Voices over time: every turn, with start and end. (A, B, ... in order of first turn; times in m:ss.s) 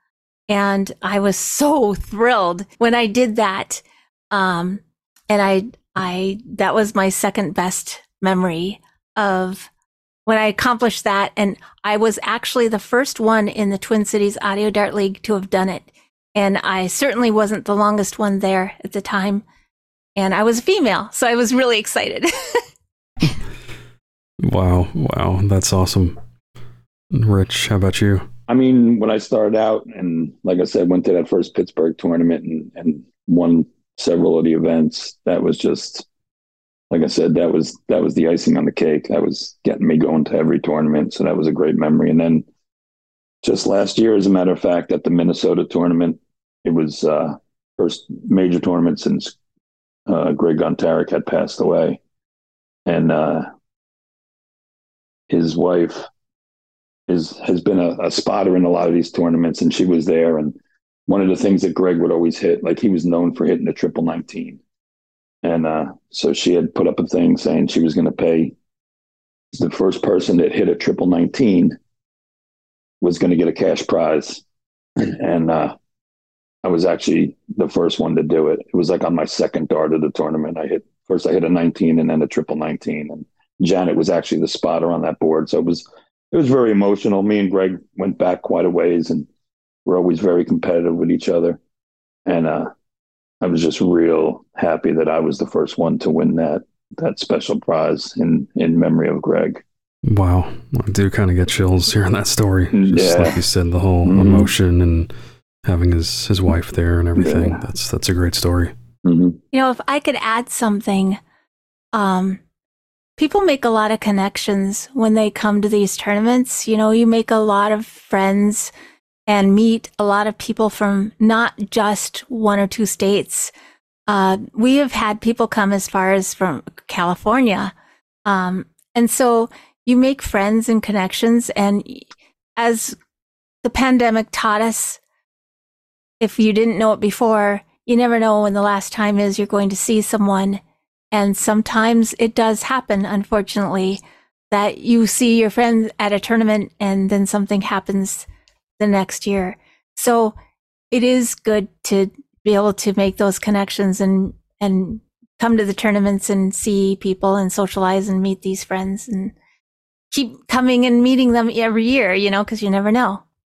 0:00.5-0:09.7 A
0:10.2-0:19.4 A
0:20.2-0:22.6 A
0:24.4-0:26.2 B
0:27.1-0:28.3 B
0:28.5-0:36.1 C
0:36.9-0:42.4 C
0:43.4-0:49.4 C
0:50.1-0:52.0 C
0:52.8-0:53.4 C
0:55.3-0:56.1 C
0:57.1-1:00.6 C
1:01.1-1:04.6 C
1:05.4-1:08.5 C
1:09.5-1:11.8 C
1:13.0-1:14.4 C
1:15.0-1:15.8 C
1:16.6-1:29.3 C
1:29.8-1:31.6 C
1:32.2-1:32.7 C
1:33.4-1:39.6 C
1:40.0-1:45.1 B
1:42.7-1:43.4 C
1:44.0-1:44.5 C
1:45.6-1:48.7 B
1:47.2-1:47.6 C
1:49.0-1:49.4 C
1:49.5-1:51.2 A
1:51.9-1:52.4 A
1:53.2-1:58.7 A
1:59.3-2:03.5 A
2:04.1-2:07.7 A
2:08.2-2:13.0 A
2:13.6-2:15.0 A
2:16.2-2:20.6 A
2:21.1-2:28.3 A
2:28.8-2:30.4 A
2:30.9-2:39.3 A
2:40.1-2:43.2 A